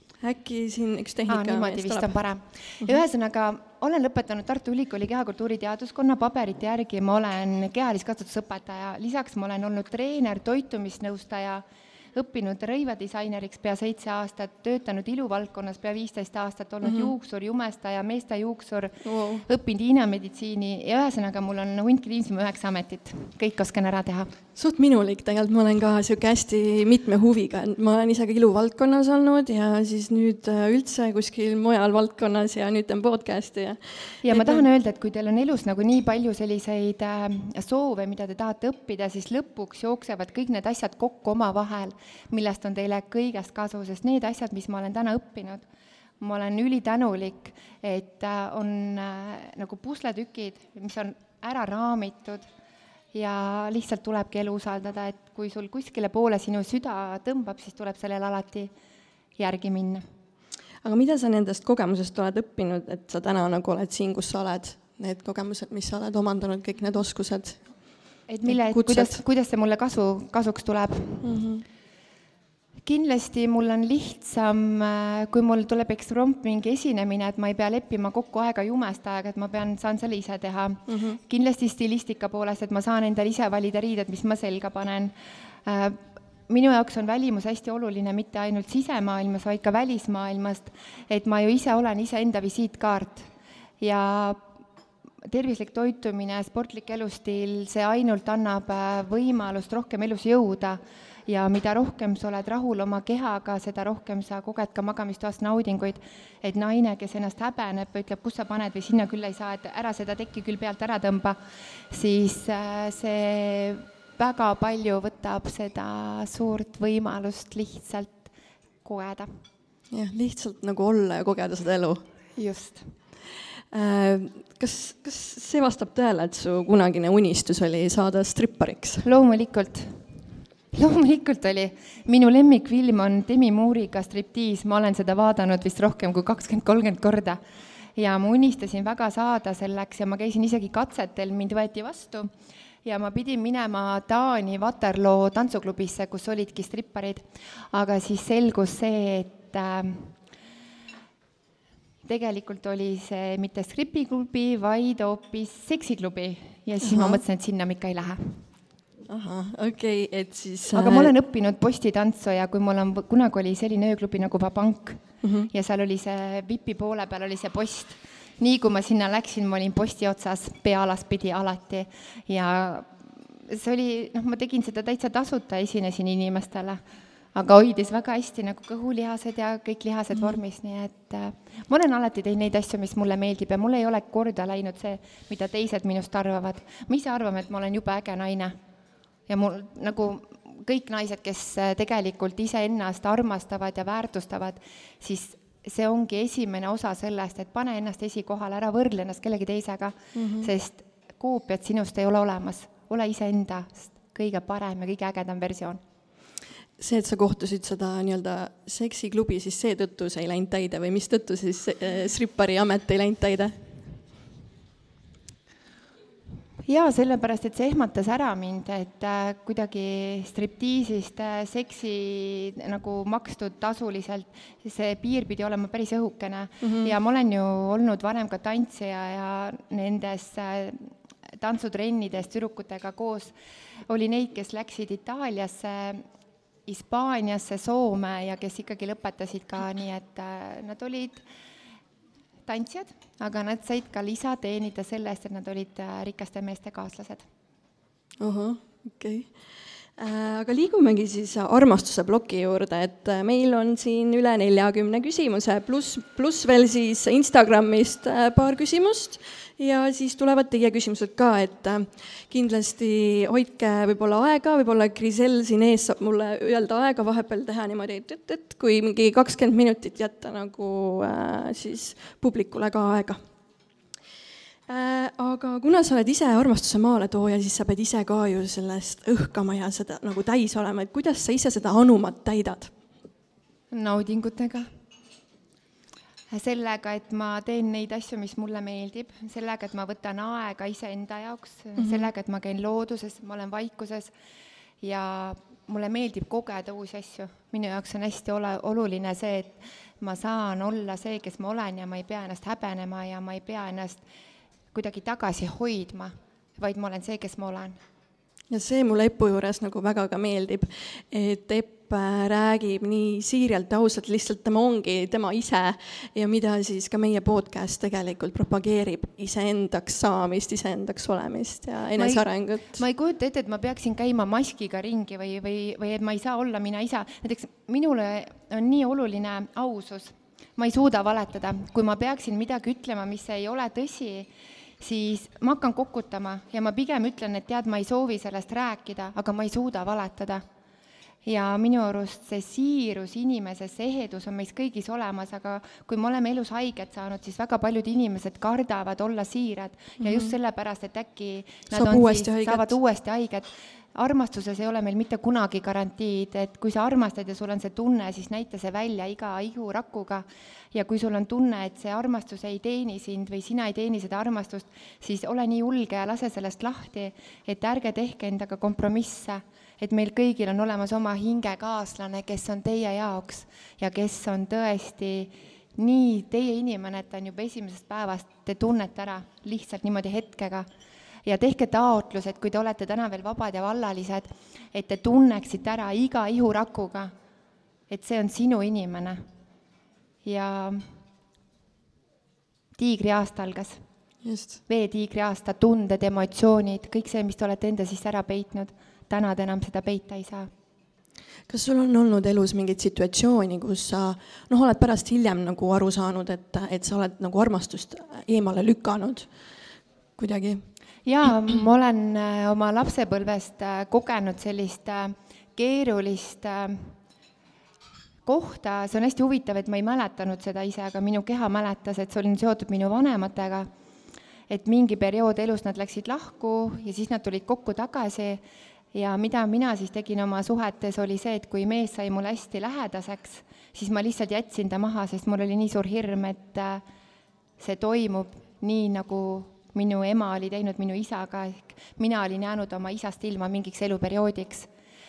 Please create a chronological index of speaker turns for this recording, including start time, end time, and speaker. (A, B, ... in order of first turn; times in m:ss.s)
0:00.2-0:02.1 A
0:01.3-0:24.3 B
0:16.8-0:17.1 A
0:19.0-0:19.4 A
0:24.5-0:34.7 A
0:34.2-0:45.6 B
0:46.2-0:52.4 B
0:53.1-0:58.7 B
0:59.4-1:00.0 B
1:00.8-1:07.6 A
1:08.3-1:11.3 B
1:08.4-1:09.2 A
1:11.2-1:11.6 A
1:12.8-1:25.1 B
1:20.9-1:21.2 A
1:25.6-1:33.3 B
1:33.8-1:34.5 B
1:35.2-1:51.4 B
1:51.9-1:58.3 B
1:58.8-1:59.4 B
1:59.9-2:02.0 A
2:02.4-2:02.9 B
2:03.7-2:09.0 A
2:09.0-2:10.0 B
2:10.7-2:17.4 B
2:18.0-2:22.3 B
2:22.8-2:30.2 B
2:32.0-2:38.4 B
2:36.8-2:37.2 A
2:39.1-2:41.1 A
2:40.7-2:56.8 B
2:45.2-2:45.5 A
2:57.3-3:08.6 B
3:00.1-3:00.4 A
3:09.3-3:25.8 B
3:20.1-3:20.5 A
3:26.8-3:33.6 A
3:36.6-3:53.3 B
3:46.6-3:46.9 A
3:53.9-3:56.0 B
3:56.7-4:01.2 B
4:02.4-4:07.2 B
4:08.2-4:09.3 A
4:10.0-4:33.2 A
4:34.7-4:42.7 A
4:43.7-4:44.7 B
4:46.3-4:54.1 B
4:51.8-4:52.1 A
4:54.8-5:04.0 B
5:04.7-5:07.8 B
5:08.5-5:22.8 A
5:22.0-5:34.3 B
5:34.8-5:40.4 B
5:41.2-6:20.7 B
5:50.0-5:50.3 A
5:51.7-5:52.8 A
6:21.2-6:27.1 B
6:27.9-6:29.2 B
6:30.2-6:30.9 B
6:32.8-6:33.8 B
6:34.2-6:34.6 A
6:34.7-6:40.5 B
6:41.5-6:49.3 A
6:50.2-6:50.6 A
6:51.0-6:56.9 B
6:58.2-7:03.7 B
7:04.5-7:08.4 B
7:08.9-7:16.8 B
7:17.6-7:24.7 B